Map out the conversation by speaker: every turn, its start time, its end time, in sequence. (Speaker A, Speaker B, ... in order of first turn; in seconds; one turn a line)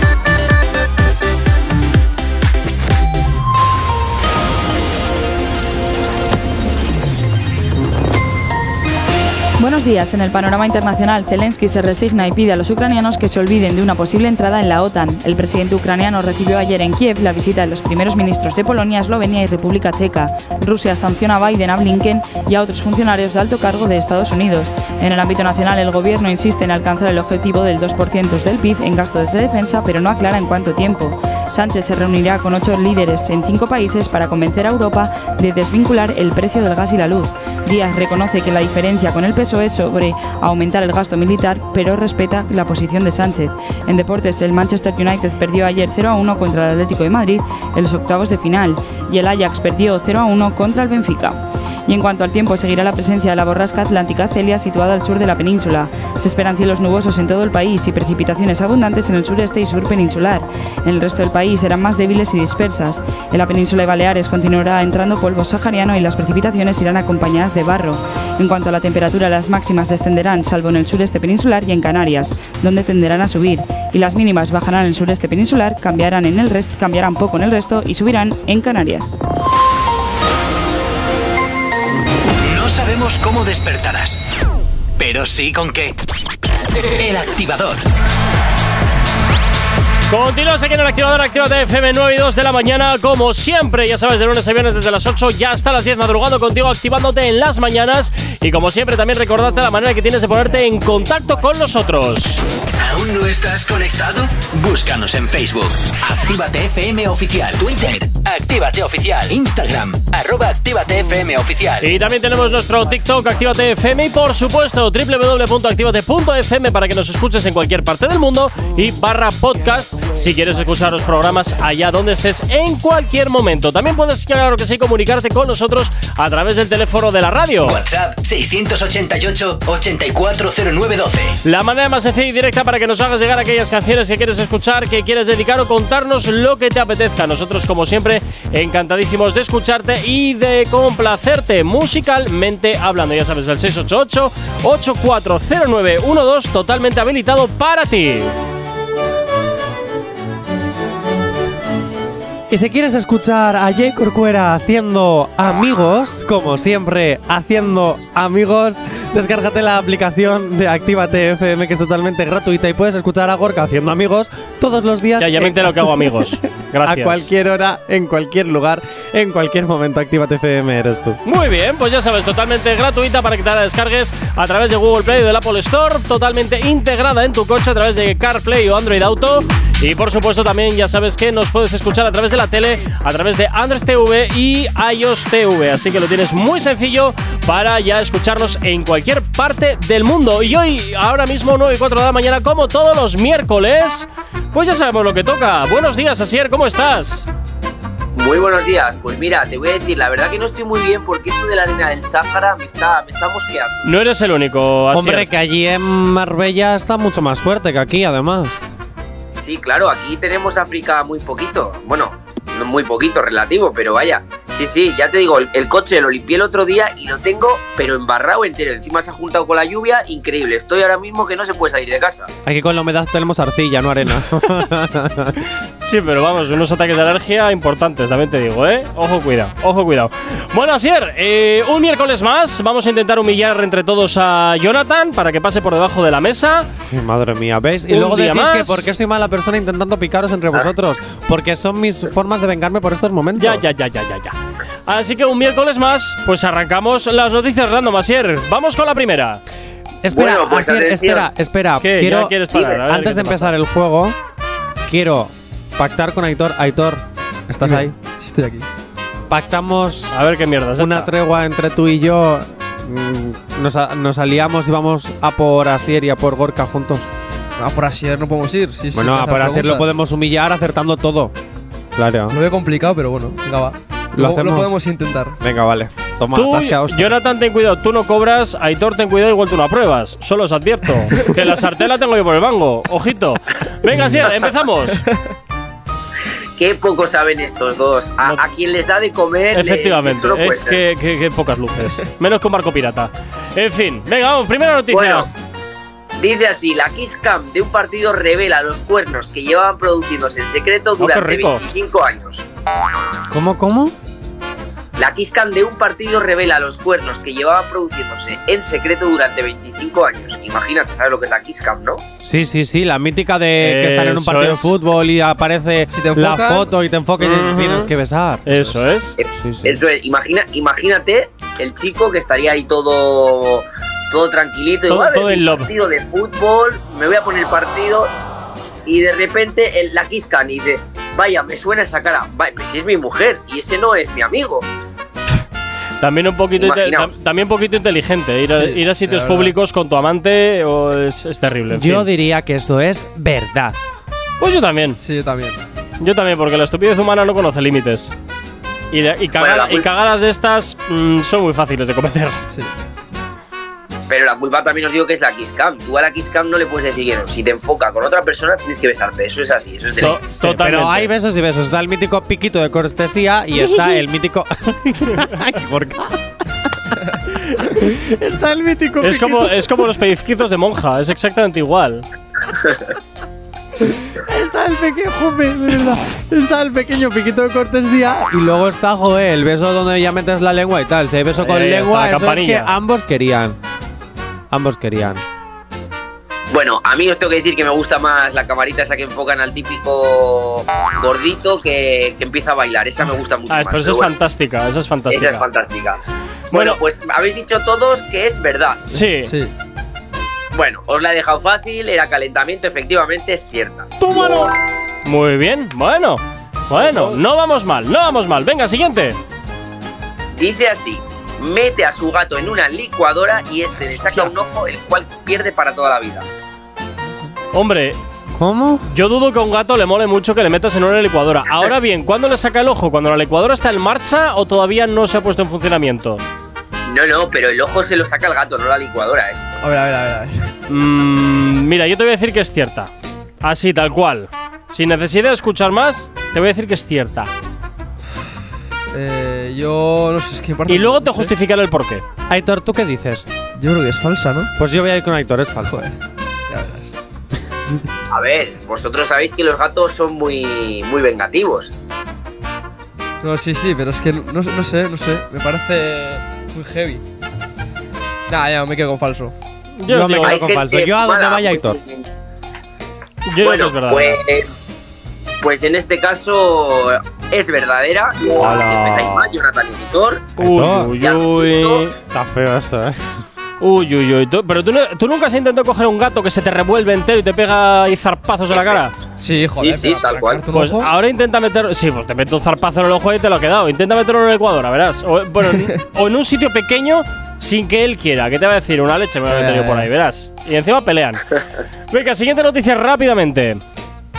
Speaker A: 9.6-79.2
Speaker B: 82.4-84.2
Speaker B: 85.0-86.0
Speaker B: 86.8-87.8
Speaker C: 90.1-102.4
Speaker B: 102.8-112.0
Speaker C: 111.8-127.8
Speaker B: 127.6-131.4
Speaker C: 131.4-148.3
Speaker D: 152.5-171.2
Speaker C: 165.2-167.3
Speaker C: 171.2-197.3
Speaker E: 198.1-203.9
Speaker C: 203.8-205.3
Speaker D: 204.9-208.7
Speaker E: 209.3-222.3
Speaker D: 222.4-225.4
Speaker C: 225.8-236.7
Speaker D: 236.9-243.6
Speaker C: 237.9-238.9
Speaker C: 243.4-244.3
Speaker C: 244.9-249.4
Speaker D: 250.0-254.2
Speaker E: 250.1-251.3
Speaker C: 251.8-253.6
Speaker D: 254.8-257.9
Speaker F: 257.6-258.7
Speaker D: 259.3-260.1
Speaker C: 260.1-261.1
Speaker D: 260.8-267.1
Speaker F: 267.6-269.9
Speaker D: 268.9-271.3
Speaker D: 271.9-272.4
Speaker F: 272.3-275.4
Speaker D: 274.1-274.7
Speaker D: 275.4-277.1
Speaker C: 276.3-285.0
Speaker E: 286.6-290.8
Speaker C: 289.5-295.3
Speaker E: 294.9-295.3
Speaker E: 296.2-302.4
Speaker C: 301.0-301.6
Speaker D: 303.3-303.9
Speaker E: 305.0-312.0
Speaker D: 312.2-318.8
Speaker C: 313.6-314.7
Speaker F: 315.9-316.7
Speaker C: 317.2-317.9
Speaker C: 318.4-319.1
Speaker E: 319.2-328.1
Speaker D: 319.4-319.8
Speaker C: 324.9-325.7
Speaker E: 328.8-334.7
Speaker C: 336.0-342.1
Speaker E: 336.6-337.1
Speaker F: 338.5-339.5
Speaker D: 341.7-343.8
Speaker C: 344.4-345.0
Speaker F: 345.0-345.6
Speaker C: 346.0-348.1
Speaker C: 348.9-352.4
Speaker E: 349.3-349.9
Speaker E: 354.1-360.2
Speaker C: 359.9-361.1
Speaker D: 360.3-369.8
Speaker C: 369.0-372.1
Speaker D: 373.8-383.6
Speaker C: 381.3-382.7
Speaker D: 384.5-385.2
Speaker E: 386.5-394.1
Speaker C: 393.5-395.4
Speaker E: 395.1-396.0
Speaker E: 396.5-398.9
Speaker C: 396.5-396.8
Speaker C: 398.9-399.3
Speaker F: 399.2-399.5
Speaker E: 400.5-404.0
Speaker D: 404.0-404.5
Speaker C: 405.0-409.2
Speaker F: 406.8-407.1
Speaker E: 410.3-416.3
Speaker C: 414.1-414.3
Speaker C: 417.5-418.0
Speaker D: 418.3-418.9
Speaker C: 418.9-426.2
Speaker E: 426.9-429.4
Speaker F: 429.6-430.5
Speaker C: 430.7-432.9
Speaker C: 433.4-437.3
Speaker F: 438.9-441.3
Speaker C: 440.7-442.0
Speaker D: 442.3-443.3
Speaker F: 443.6-444.5
Speaker D: 444.6-445.9
Speaker F: 445.6-445.9
Speaker F: 446.5-446.9
Speaker E: 448.1-451.7
Speaker F: 453.2-457.0
Speaker F: 458.3-459.3
Speaker C: 459.8-460.4
Speaker D: 459.9-461.8
Speaker E: 460.2-462.1
Speaker C: 463.3-464.2
Speaker E: 463.4-464.6
Speaker E: 465.4-470.4
Speaker C: 468.4-469.4
Speaker C: 470.4-471.9
Speaker D: 470.4-470.9
Speaker E: 470.9-471.9
Speaker D: 472.1-473.1
Speaker C: 473.6-478.9
Speaker E: 478.5-478.8
Speaker F: 479.2-480.9
Speaker E: 479.5-480.4
Speaker C: 480.5-491.2
Speaker F: 489.3-489.9
Speaker C: 491.9-493.6